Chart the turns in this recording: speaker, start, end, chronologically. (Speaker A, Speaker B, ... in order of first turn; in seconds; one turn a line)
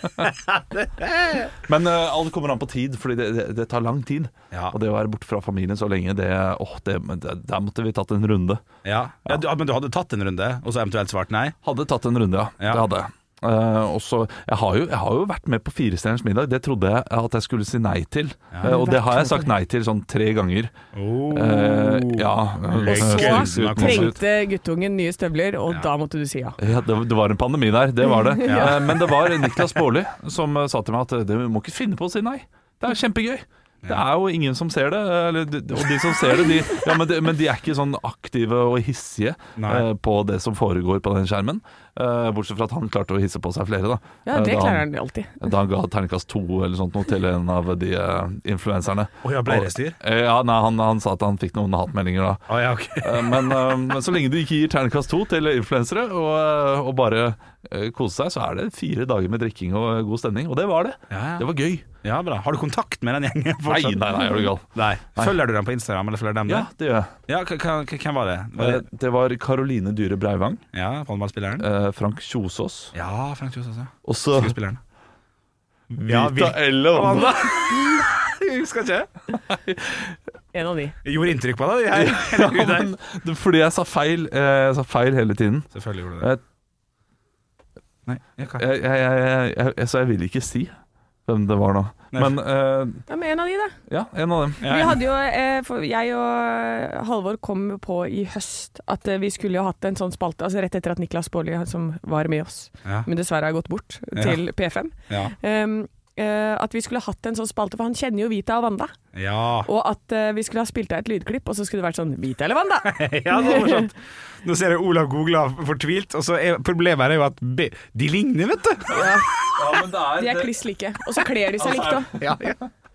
Speaker A: 0.5-1.5
Speaker B: 1.6-8.6
Speaker A: 8.8-11.5
Speaker B: 11.6-20.7
Speaker A: 12.6-12.8
Speaker C: 18.6-19.5
Speaker A: 20.9-24.1
Speaker B: 21.3-24.2
Speaker C: 22.8-26.6
Speaker B: 26.6-44.9
Speaker C: 28.1-28.9
Speaker A: 28.4-28.8
Speaker A: 39.6-39.8
Speaker C: 44.2-45.3
Speaker B: 45.4-61.8
Speaker A: 49.2-50.0
Speaker A: 52.5-53.6
Speaker A: 61.1-61.5
Speaker A: 62.0-64.0
Speaker B: 63.6-65.4
Speaker A: 64.7-66.7
Speaker B: 66.5-67.1
Speaker A: 67.3-68.8
Speaker B: 68.6-70.6
Speaker A: 70.7-71.7
Speaker B: 71.6-72.9
Speaker A: 72.9-74.8
Speaker B: 74.0-74.5
Speaker B: 75.9-77.8
Speaker A: 76.0-79.1
Speaker B: 79.5-80.1
Speaker C: 80.5-81.0
Speaker A: 81.0-82.9
Speaker B: 81.9-86.4
Speaker A: 85.7-86.3
Speaker A: 88.1-88.6
Speaker B: 88.6-90.7
Speaker B: 91.2-93.0
Speaker C: 93.1-93.8
Speaker B: 93.9-94.6
Speaker A: 94.6-95.0
Speaker C: 94.6-108.9
Speaker A: 104.1-104.4
Speaker A: 105.1-105.3
Speaker A: 109.1-109.7
Speaker C: 109.6-113.8
Speaker A: 112.8-118.9
Speaker C: 118.9-119.3
Speaker B: 119.0-120.5
Speaker C: 120.1-122.1
Speaker B: 121.2-122.5
Speaker A: 122.2-122.6